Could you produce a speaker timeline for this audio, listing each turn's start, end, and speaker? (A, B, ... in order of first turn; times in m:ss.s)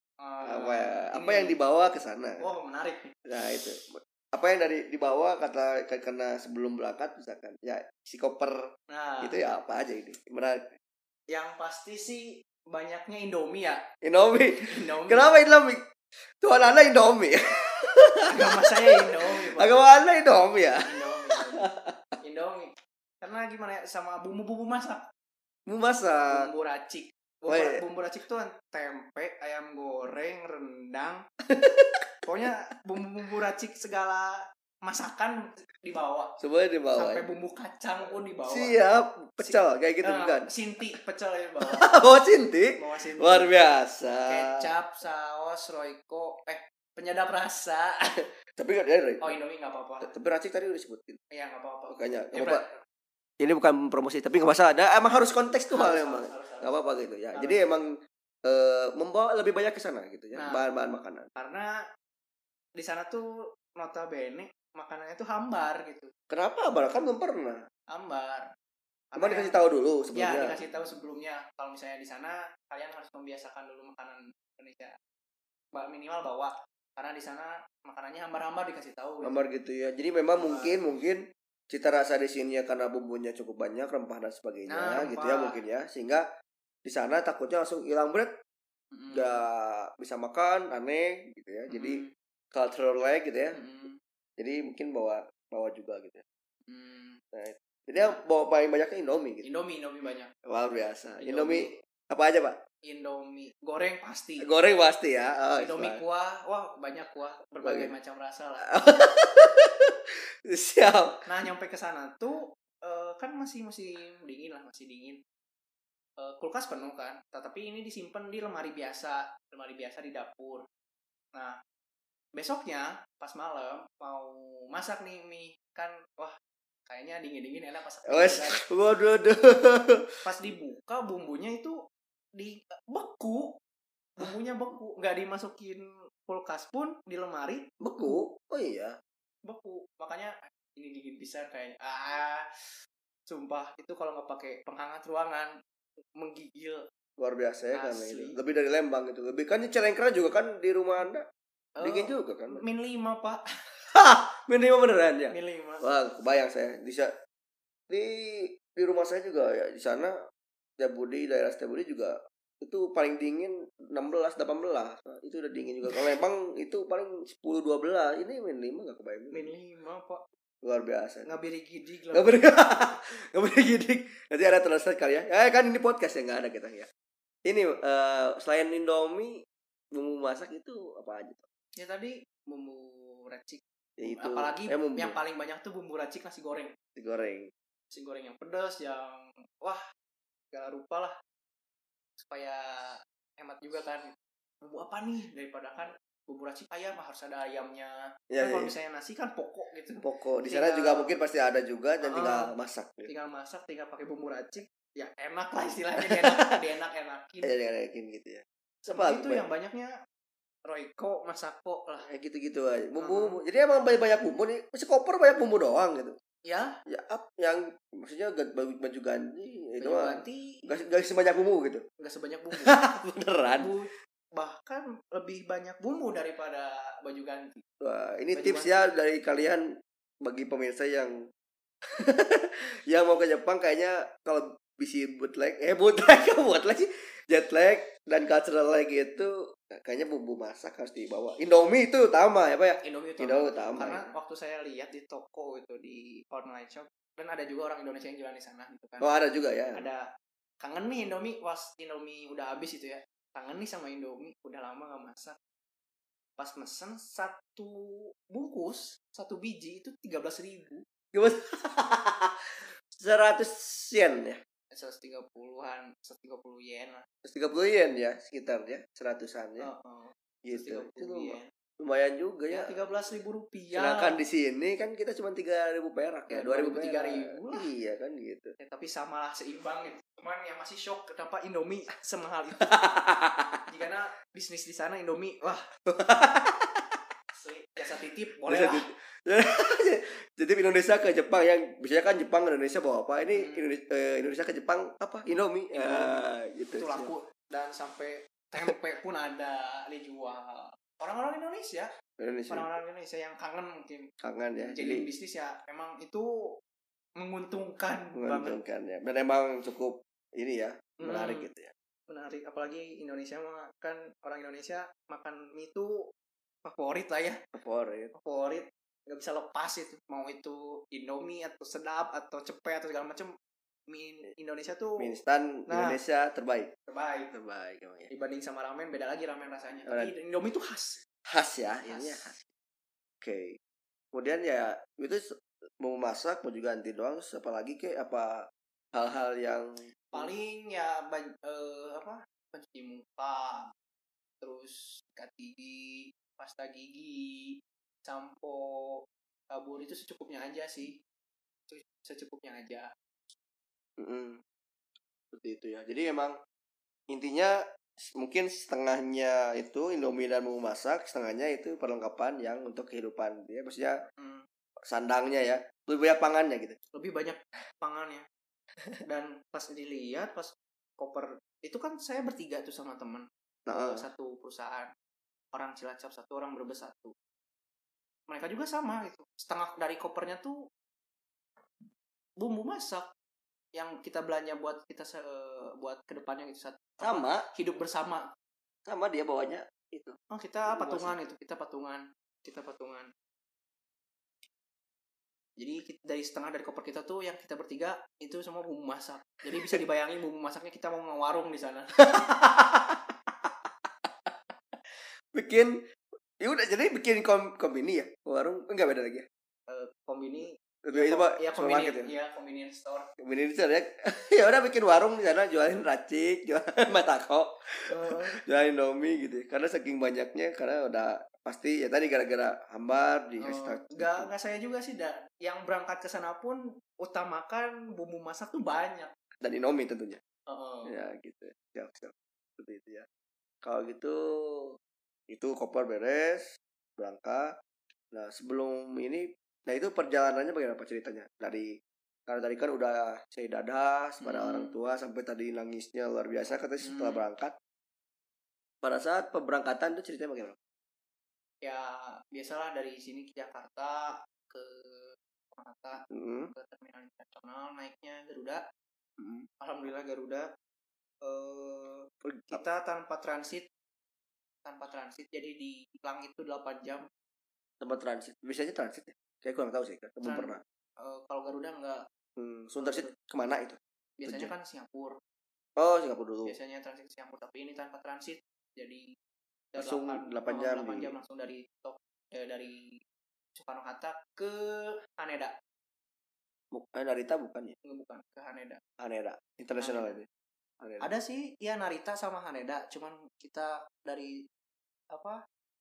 0:00.2-0:01.6 A
0:00.4-0:02.5 B
0:02.4-0:03.1 A
0:03.2-0:08.6 B
0:08.9-0:09.4 A
0:09.2-0:10.8 B
0:11.3-0:13.8 A
0:14.0-0:15.8 B
0:14.6-0:15.3 A
0:16.4-0:22.1 B
0:18.3-0:19.8 A
0:20.8-0:21.7 A
0:22.2-0:25.0 A
0:25.7-0:26.5 B
0:26.2-0:31.2 A
0:27.5-0:27.8 B
0:31.4-0:32.1 B
0:32.2-0:36.4 A
0:36.4-0:37.3 B
0:36.9-0:38.8 A
0:38.1-0:40.5 B
0:39.4-0:41.8 A
0:41.6-0:44.7 B
0:42.8-0:43.5 A
0:44.2-0:48.2 A
0:48.6-0:49.4 B
0:49.2-0:50.1 A
0:50.0-0:51.2 B
0:51.3-0:52.8 A
0:51.9-0:52.6 B
0:53.4-1:01.3 B
0:55.7-0:56.8 A
0:57.3-0:57.6 A
1:00.3-1:00.6 A
1:01.3-1:01.8 A
1:02.8-1:06.1 A
1:06.3-1:07.6 B
1:07.9-1:08.5 A
1:09.1-1:09.6 A
1:09.2-1:10.6 B
1:10.1-1:14.9 A
1:15.7-1:19.4 A
1:19.2-1:26.2 B
1:20.3-1:20.8 A
1:24.7-1:25.6 A
1:26.8-1:28.3 B
1:28.9-1:29.4 A
1:29.1-1:33.6 B
1:31.7-1:32.1 A
1:33.5-1:34.0 A
1:34.4-1:36.2 B
1:36.7-1:37.2 A
1:37.3-1:39.5 B
1:39.4-1:40.3 A
1:40.4-1:42.6 B
1:41.2-1:41.7 A
1:42.8-1:44.5 A
1:44.4-1:46.0 B
1:45.6-1:48.7 A
1:47.6-1:47.9 B
1:48.6-1:51.2 B
1:51.2-1:55.2 A
1:56.2-2:00.6 A
2:02.3-2:06.4 A
2:06.9-2:08.6 A
2:08.1-2:10.2 B
2:10.2-2:11.8 A
2:12.3-2:13.6 A
2:14.2-2:17.7 A
2:17.8-2:19.0 B
2:19.4-2:22.7 A
2:23.3-2:25.6 A
2:26.1-2:26.8 A
2:27.2-2:31.2 B
2:27.7-2:28.4 A
2:31.8-2:33.4 A
2:31.8-2:32.6 B
2:33.9-2:37.1 B
2:35.3-2:35.9 A
2:37.9-2:40.1 B
2:40.8-2:49.5 B
2:49.3-2:50.2 A
2:50.6-2:51.3 B
2:51.2-2:52.6 A
2:52.1-2:56.9 B
2:57.4-3:01.4 B
3:01.8-3:06.7 A
3:04.0-3:05.2 B
3:07.0-3:07.5 B
3:07.9-3:09.8 A
3:10.5-3:11.2 A
3:12.2-3:21.1 A
3:18.3-3:18.7 B
3:20.0-3:23.1 B
3:22.0-3:22.5 A
3:23.1-3:27.5 A
3:26.0-3:26.3 B
3:27.4-3:29.4 B
3:28.8-3:30.0 A
3:30.6-3:32.1 A
3:32.0-3:36.2 B
3:33.0-3:33.4 A
3:36.4-3:36.8 A
3:36.9-3:41.8 B
3:39.8-3:40.6 A
3:42.0-3:42.8 A
3:42.6-3:43.7 B
3:43.5-3:47.6 A
3:47.8-3:51.2 B
3:48.3-3:48.8 A
3:51.9-4:04.1 B
4:02.8-4:09.1 A
4:09.0-4:09.9 B
4:09.7-4:10.1 A
4:10.6-4:15.4 A
4:16.4-4:20.8 A
4:21.1-4:24.4 B
4:24.7-4:27.0 A
4:27.2-4:29.7 B
4:29.6-4:31.5 A
4:30.4-4:32.8 B
4:32.5-4:34.2 A
4:33.7-4:38.5 B
4:36.3-4:37.7 A
4:38.6-4:42.7 A
4:42.6-4:43.6 B
4:43.7-4:45.7 A
4:45.8-4:47.0 B
4:47.3-4:48.8 A
4:48.5-4:57.1 B
4:53.3-4:53.7 A
4:55.7-4:56.2 A
4:56.7-5:01.9 A
5:02.2-5:02.7 B
5:02.5-5:04.1 A
5:04.2-5:05.1 B
5:04.6-5:06.6 A
5:07.2-5:08.6 A
5:08.2-5:11.7 B
5:11.0-5:11.5 A
5:12.1-5:16.1 A
5:16.6-5:17.4 A
5:17.5-5:18.1 B
5:18.1-5:23.3 A
5:23.9-5:25.1 A
5:25.0-5:26.7 B
5:25.7-5:26.0 A
5:26.9-5:27.3 A
5:27.3-5:28.1 B
5:28.1-5:31.0 A
5:29.9-5:30.1 B
5:31.2-5:32.4 B
5:31.8-5:32.3 A
5:33.2-5:33.6 B
5:34.1-5:40.3 B
5:40.1-5:43.7 A
5:44.4-5:49.0 A
5:49.5-5:51.0 A
5:51.7-5:52.9 A
5:54.0-5:54.4 B
5:55.3-5:56.3 B
5:57.1-6:04.0 B
6:04.2-6:04.4 A
6:04.9-6:06.8 B
6:06.9-6:08.2 A
6:09.0-6:14.9 A
6:13.7-6:14.0 B
6:15.5-6:17.1 A
6:18.3-6:20.7 A
6:22.4-6:23.1 A
6:23.7-6:28.3 A
6:27.0-6:27.5 B
6:28.8-6:31.2 B
6:30.3-6:33.1 A
6:35.6-6:42.0 A
6:39.5-6:39.8 B
6:42.0-6:44.3 B
6:45.3-6:45.8 B
6:46.4-6:49.2 B
6:49.7-6:53.1 A
6:50.8-6:52.1 B
6:53.2-7:04.3 B
6:57.9-6:58.4 A
7:03.4-7:09.1 A
7:09.4-7:10.2 B
7:10.5-7:10.9 A
7:10.8-7:13.0 B
7:13.6-7:14.8 B
7:15.3-7:17.5 B
7:18.1-7:21.7 B
7:22.3-7:27.5 B
7:24.2-7:24.7 A
7:26.8-7:27.2 A
7:28.8-7:30.6 B
7:31.6-7:38.6 A
7:36.1-7:36.5 B
7:39.2-7:39.5 B
7:39.6-7:40.5 A
7:41.2-7:43.7 A
7:42.2-7:42.6 B
7:44.6-7:47.1 A
7:47.8-7:50.6 B
7:50.2-7:52.0 A
7:52.4-7:54.5 B
7:52.8-7:53.1 A
7:54.2-7:55.2 A
7:55.8-7:56.5 B
7:56.4-7:59.1 A
7:59.7-8:03.0 A
7:59.8-8:01.1 B
8:03.6-8:05.5 A
8:06.7-8:07.7 B
8:07.8-8:08.8 A
8:09.0-8:10.3 B
8:09.8-8:10.2 A
8:10.8-8:11.1 B
8:11.0-8:14.4 A
8:15.1-8:15.4 A